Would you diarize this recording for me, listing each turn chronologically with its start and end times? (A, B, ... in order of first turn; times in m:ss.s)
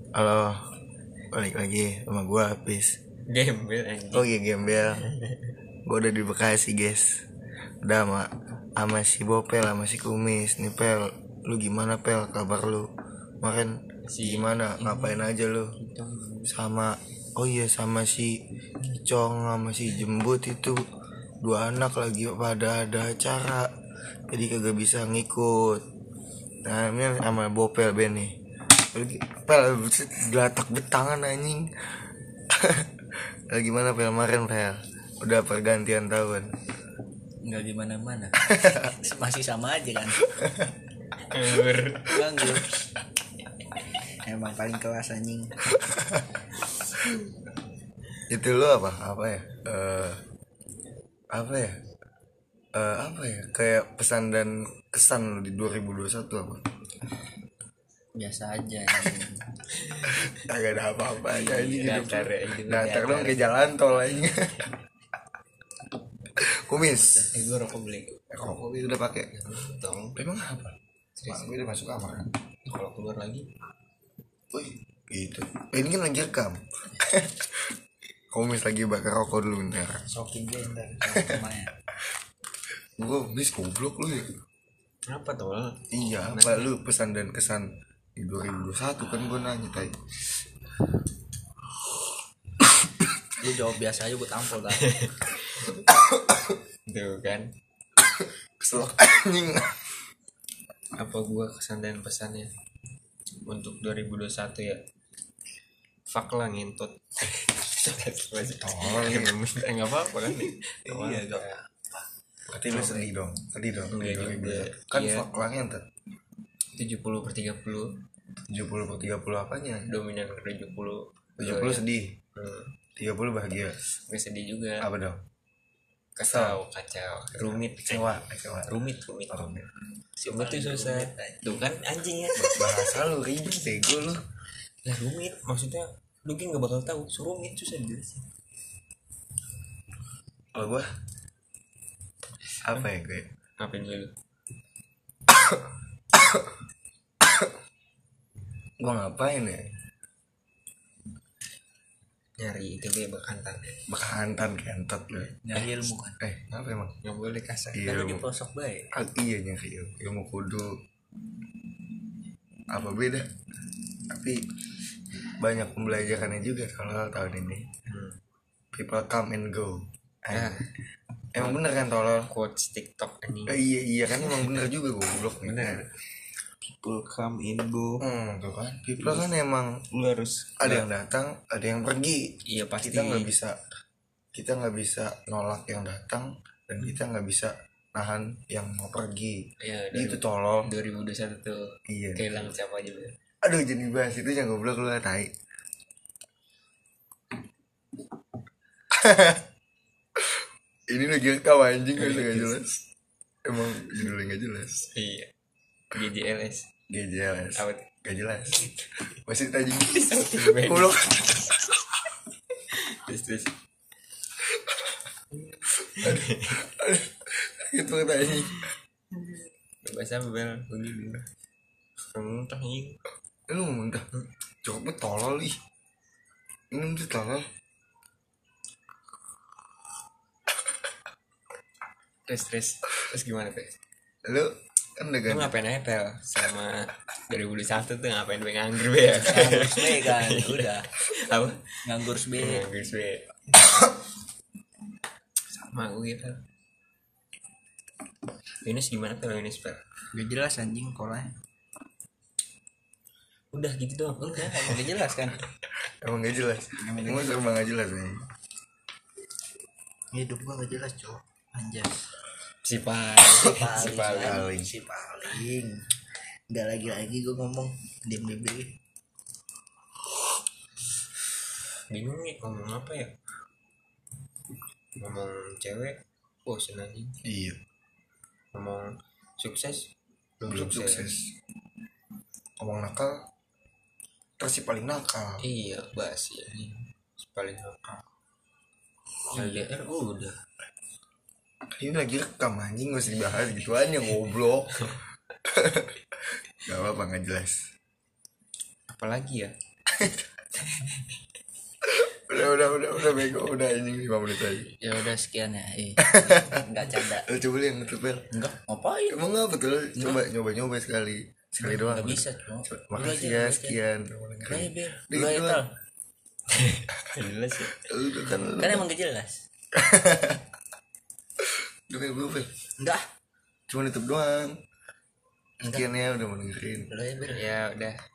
0:00.1-0:00.6 A
0:01.3-0:03.0 A
0:03.3-0:05.5 B
0:04.1-0:05.0 A
0:05.8-0:07.2 A
0:07.8-0:12.9 A
0:13.4-0:15.7 A
0:14.1-0:15.2 B
0:15.8-0:16.5 B
0:16.5-0:20.8 A
0:21.4-0:23.7 A
0:24.3-0:25.8 A
0:26.6-0:28.3 A
0:28.9-0:31.6 A
0:32.5-0:32.9 A
0:33.5-0:36.5 A
0:37.4-0:40.2 C
0:40.3-0:40.7 A
0:41.2-0:42.1 B
0:42.1-0:42.7 C
0:44.2-0:45.5 C
0:45.8-0:46.2 A
0:46.7-0:47.3 B
0:48.3-0:50.2 A
0:51.3-0:51.8 A
0:52.7-0:56.6 A
0:58.1-0:59.4 C
0:59.8-1:00.4 B
1:00.3-1:04.7 A
1:01.2-1:02.0 C
1:01.8-1:03.4 B
1:02.8-1:03.4 C
1:06.4-1:07.3 A
1:06.8-1:07.5 C
1:07.3-1:08.3 B
1:08.3-1:09.3 A
1:09.3-1:10.2 B
1:10.2-1:10.8 A
1:11.2-1:11.5 B
1:11.3-1:12.3 A
1:12.6-1:13.5 B
1:14.5-1:17.7 A
1:18.3-1:20.0 A
1:20.1-1:21.7 C
1:23.0-1:24.3 A
1:25.1-1:26.7 B
1:25.9-1:29.9 A
1:33.4-1:34.9 C
1:34.7-1:35.8 B
1:35.9-1:36.6 A
1:36.9-1:37.5 B
1:38.0-1:39.9 A
1:40.9-1:42.5 B
1:43.4-1:44.8 B
1:46.1-1:51.6 B
1:48.4-1:49.4 A
1:52.5-1:55.8 A
1:52.6-1:53.1 B
1:53.9-1:55.3 B
1:56.8-1:58.0 B
1:58.5-1:59.9 A
1:59.9-2:02.7 B
2:01.4-2:02.2 A
2:03.0-2:03.8 A
2:03.8-2:04.9 B
2:04.8-2:05.2 A
2:06.2-2:09.5 B
2:06.3-2:06.6 A
2:07.7-2:08.8 A
2:09.3-2:09.7 A
2:10.2-2:13.0 B
2:10.2-2:11.5 C
2:12.3-2:14.2 A
2:14.8-2:18.3 B
2:20.5-2:20.9 A
2:22.6-2:23.3 A
2:23.6-2:24.1 B
2:25.3-2:26.5 A
2:28.8-2:29.7 A
2:32.4-2:33.8 B
2:33.9-2:35.4 A
2:35.4-2:36.2 C
2:36.2-2:36.9 A
2:37.0-2:37.8 B
2:37.7-2:38.2 A
2:37.8-2:38.9 C
2:38.9-2:40.7 A
2:42.7-2:43.3 A
2:44.1-2:44.4 A
2:45.4-2:47.6 A
2:47.9-2:48.2 B
2:48.7-2:50.6 A
2:50.3-2:50.7 B
2:51.3-2:52.3 A
2:51.4-2:54.7 B
2:53.4-2:55.8 A
2:55.4-2:55.9 B
2:58.0-2:59.8 A
2:59.0-2:59.3 B
2:59.9-3:00.9 B
3:00.6-3:03.6 A
3:02.4-3:03.3 B
3:04.3-3:09.4 A
3:09.6-3:11.6 B
3:09.9-3:10.7 A
3:11.9-3:12.2 A
3:12.1-3:13.1 B
3:13.4-3:15.3 A
3:18.9-3:19.4 A
3:20.2-3:22.8 A
3:21.9-3:22.6 B
3:23.4-3:24.9 A
3:24.9-3:25.3 B
3:25.9-3:26.6 B
3:26.9-3:28.7 A
3:27.6-3:27.9 B
3:28.5-3:28.9 B
3:29.2-3:31.6 A
3:29.8-3:31.5 B
3:32.7-3:33.5 B
3:35.3-3:36.6 B
3:35.9-3:38.7 A
3:38.3-3:41.2 B
3:42.1-3:43.0 B
3:43.5-3:44.0 A
3:44.6-3:45.6 A
3:46.7-3:47.4 A
3:52.3-3:53.7 B
3:54.2-3:55.5 A
3:55.2-4:01.6 B
3:59.1-4:00.9 C
4:01.8-4:02.7 C
4:02.3-4:03.7 B
4:05.5-4:06.4 B
4:08.6-4:09.8 B
4:10.1-4:11.4 C
4:13.5-4:15.1 B
4:14.3-4:15.4 C
4:16.0-4:18.2 A
4:16.8-4:17.4 C
4:20.1-4:22.1 C
4:22.6-4:24.4 B
4:23.4-4:25.8 C
4:24.1-4:24.7 A
4:26.5-4:28.7 C
4:31.9-4:33.1 B
4:35.0-4:37.2 B
4:37.2-4:37.6 A
4:38.5-4:39.9 B
4:40.4-4:41.1 B
4:40.5-4:41.3 A
4:42.6-4:43.2 A
4:44.4-4:45.5 A
4:45.4-4:47.8 B
4:49.3-4:50.4 B
4:51.8-4:54.9 A
4:55.5-4:55.9 A
4:56.6-4:57.6 A
4:58.9-4:59.5 B
4:59.9-5:00.2 A
5:00.6-5:01.1 B
5:01.8-5:04.7 A
5:04.8-5:07.3 C
5:06.0-5:08.3 A
5:08.3-5:09.2 C
5:09.1-5:15.6 A
5:11.6-5:13.8 C
5:14.5-5:15.7 C
5:16.5-5:17.9 B
5:17.6-5:18.8 A
5:18.6-5:19.4 C
5:19.7-5:20.4 A
5:21.4-5:22.5 A
5:22.8-5:23.0 C
5:23.7-5:24.6 A
5:25.6-5:26.9 A
5:25.6-5:25.9 C
5:26.9-5:27.5 C
5:27.2-5:28.0 B